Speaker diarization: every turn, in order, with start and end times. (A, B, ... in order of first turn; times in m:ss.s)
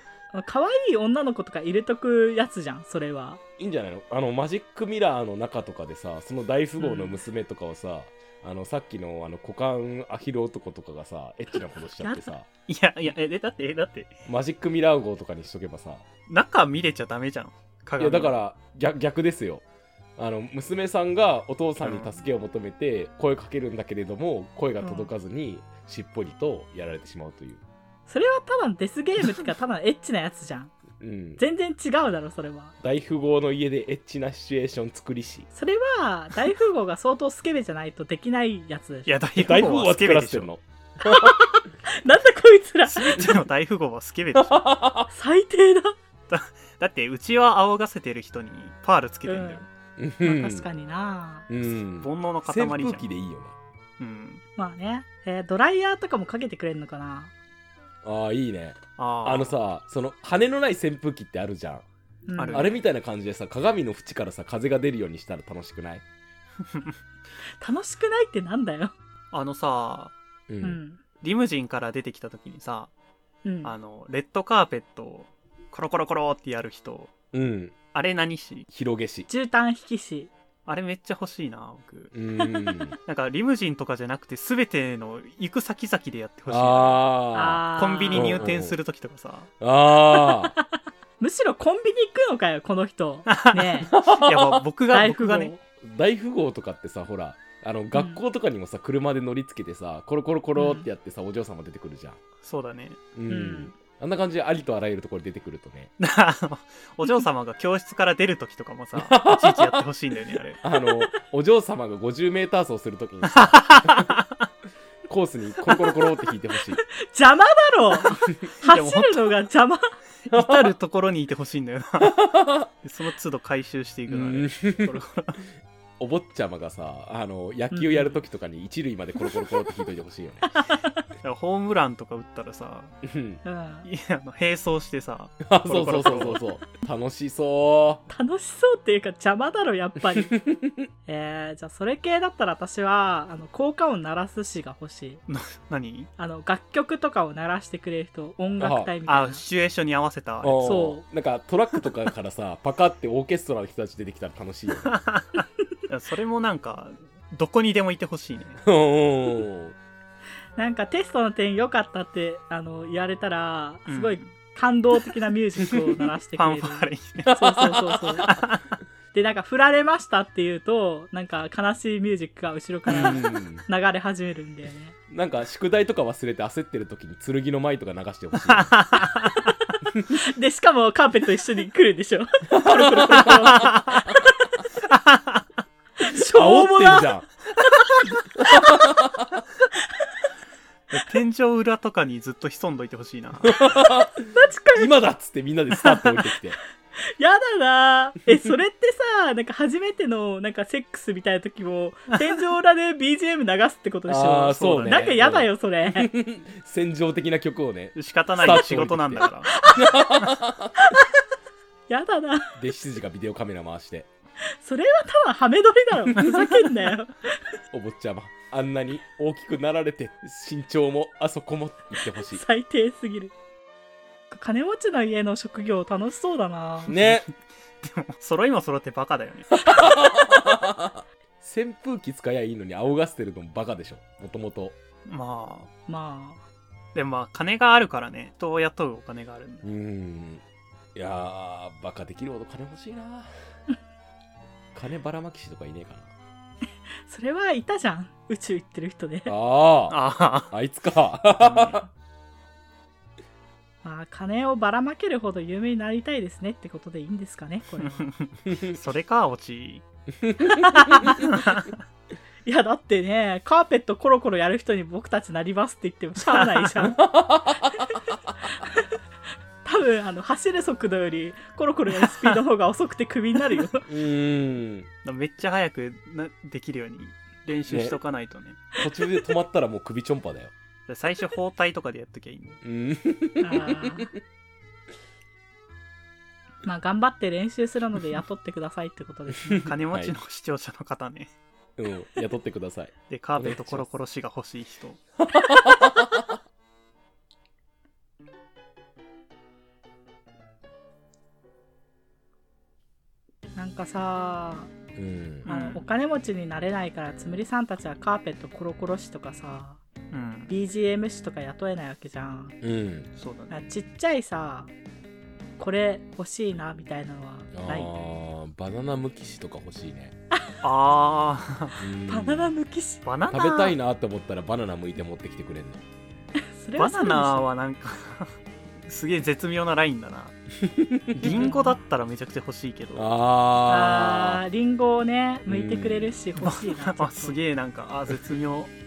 0:00.3-0:03.4 A
0:03.6-0:12.5 B
0:06.8-0:07.2 A
0:12.0-0:12.3 A
0:12.7-0:14.2 C
0:14.2-0:16.0 B
0:16.3-0:18.3 C
0:18.0-0:19.6 B
0:20.2-0:27.6 B
0:21.8-0:22.2 C
0:24.8-0:25.1 A
0:28.1-0:30.7 A
0:31.0-0:31.4 B
0:31.4-0:32.7 A
0:32.8-0:35.5 B
0:35.5-0:39.1 A
0:39.0-0:40.5 C
0:39.4-0:41.4 B
0:41.0-0:43.4 A
0:42.9-0:44.7 C
0:44.4-0:45.1 B
0:45.1-0:46.0 A
0:46.3-0:49.6 C
0:49.2-0:49.7 A
0:50.0-0:50.6 B
0:50.2-0:51.5 A
0:51.5-0:53.5 B
0:52.0-0:53.0 C
0:54.0-0:54.4 C
0:54.6-0:57.3 A
0:58.0-1:01.8 B
0:59.0-0:59.6 C
1:02.3-1:02.7 A
1:02.4-1:02.8 C
1:02.5-1:06.0 B
1:07.6-1:08.9 A
1:09.3-1:10.1 C
1:10.5-1:10.8 B
1:10.6-1:11.0 A
1:11.2-1:12.9 C
1:13.4-1:13.7 A
1:13.6-1:17.1 C
1:17.3-1:17.7 B
1:17.9-1:18.7 C
1:18.7-1:19.3 B
1:19.3-1:20.3 A
1:20.6-1:22.1 C
1:22.1-1:23.0 B
1:23.0-1:27.1 C
1:26.5-1:28.8 B
1:27.3-1:28.5 A
1:27.7-1:29.5 C
1:29.6-1:30.6 B
1:31.2-1:34.0 A
1:33.3-1:35.5 C
1:33.9-1:34.6 B
1:34.9-1:35.6 A
1:35.8-1:42.2 B
1:37.9-1:38.2 A
1:40.5-1:40.9 A
1:42.4-1:43.0 C
1:43.1-1:45.9 B
1:43.3-1:43.7 A
1:46.0-1:50.6 C
1:49.0-1:49.8 B
1:50.6-1:54.1 B
1:50.7-1:51.0 A
1:53.3-1:54.3 C
1:55.1-1:56.8 B
1:56.9-1:59.9 A
1:58.6-1:59.4 C
2:00.3-2:02.3 C
2:00.3-2:00.7 B
2:02.0-2:02.7 B
2:02.8-2:05.4 C
2:04.1-2:05.0 B
2:06.0-2:10.5 B
2:07.7-2:08.1 A
2:10.5-2:11.0 A
2:11.2-2:12.9 C
2:13.0-2:13.4 B
2:13.4-2:13.8 A
2:13.8-2:16.4 C
2:15.4-2:18.0 B
2:18.1-2:20.4 A
2:20.1-2:20.9 B
2:21.0-2:25.2 A
2:25.3-2:26.1 C
2:26.2-2:29.4 A
2:28.6-2:28.9 B
2:29.0-2:30.8 C
2:30.4-2:34.9 B
2:30.6-2:31.0 A
2:34.8-2:38.6 C
2:38.6-2:39.8 B
2:40.6-2:48.3 A
2:43.9-2:44.3 C
2:46.3-2:48.6 C
2:47.7-2:48.4 B
2:49.1-2:54.9 A
2:52.9-2:53.6 B
2:52.9-2:53.2 C
2:55.1-2:58.7 B
2:58.5-2:59.4 C
3:00.1-3:04.2 A
3:02.5-3:04.2 B
3:03.4-3:03.9 C
3:04.9-3:05.4 C
3:06.0-3:07.1 A
3:06.1-3:07.3 B
3:08.4-3:09.4 B
3:08.4-3:08.8 A
3:09.8-3:10.3 A
3:10.9-3:13.7 C
3:13.4-3:16.6 B
3:14.2-3:14.9 A
3:15.8-3:16.1 C
3:17.0-3:26.1 A
3:24.1-3:30.7 B
3:24.8-3:25.1 C
3:27.9-3:29.6 C
3:29.6-3:30.0 A
3:30.8-3:31.1 A
3:31.9-3:32.6 A
3:32.6-3:34.1 B
3:34.5-3:37.6 A
3:37.7-3:42.4 B
3:42.2-3:43.3 A
3:44.3-3:46.9 A
3:46.9-3:47.3 C
3:46.9-3:47.2 B
3:47.8-3:49.5 C
3:49.5-3:54.8 B
3:49.7-3:50.6 A
3:55.0-3:55.7 C
3:55.9-3:56.4 A
3:56.9-3:59.6 C
3:59.6-4:00.4 B
4:00.9-4:03.3 B
4:04.7-4:06.1 B
4:06.9-4:09.3 A
4:09.2-4:11.8 B
4:09.9-4:10.5 C
4:11.4-4:11.8 A
4:13.8-4:18.1 A
4:17.8-4:19.8 C
4:18.5-4:18.7 B
4:20.2-4:21.3 B
4:20.5-4:21.3 A
4:21.1-4:21.8 C
4:22.4-4:27.0 A
4:26.2-4:26.9 C
4:26.8-4:28.1 B
4:28.4-4:29.0 A
4:29.6-4:33.8 A
4:32.0-4:32.4 C
4:33.8-4:34.9 B
4:35.0-4:38.6 C
4:37.7-4:38.0 B
4:38.7-4:40.5 B
4:40.9-4:42.6 C
4:42.6-4:44.1 B
4:43.4-4:44.1 A
4:46.6-4:49.6 A
4:49.4-4:50.1 B
4:49.5-4:51.3 C
4:51.8-4:53.8 B
4:53.1-4:55.0 C
4:55.2-4:56.3 B
5:03.6-5:04.7 A
5:05.0-5:05.5 B
5:05.4-5:05.8 C
5:05.5-5:09.8 A
5:10.1-5:10.5 C
5:10.5-5:12.6 A
5:12.6-5:13.1 B
5:13.2-5:13.7 C
5:13.5-5:14.7 A
5:15.6-5:17.9 A
5:17.5-5:20.1 B
5:20.6-5:21.8 C
5:21.8-5:22.5 B
5:22.0-5:23.0 A
5:23.0-5:23.7 C
5:23.3-5:25.8 B
5:26.4-5:27.4 A
5:26.8-5:28.3 C
5:28.8-5:30.4 C
5:30.6-5:31.5 B
5:31.2-5:33.1 C
5:31.3-5:31.8 A
5:32.9-5:34.4 B
5:33.7-5:37.4 A
5:35.5-5:36.1 B
5:36.4-5:38.7 C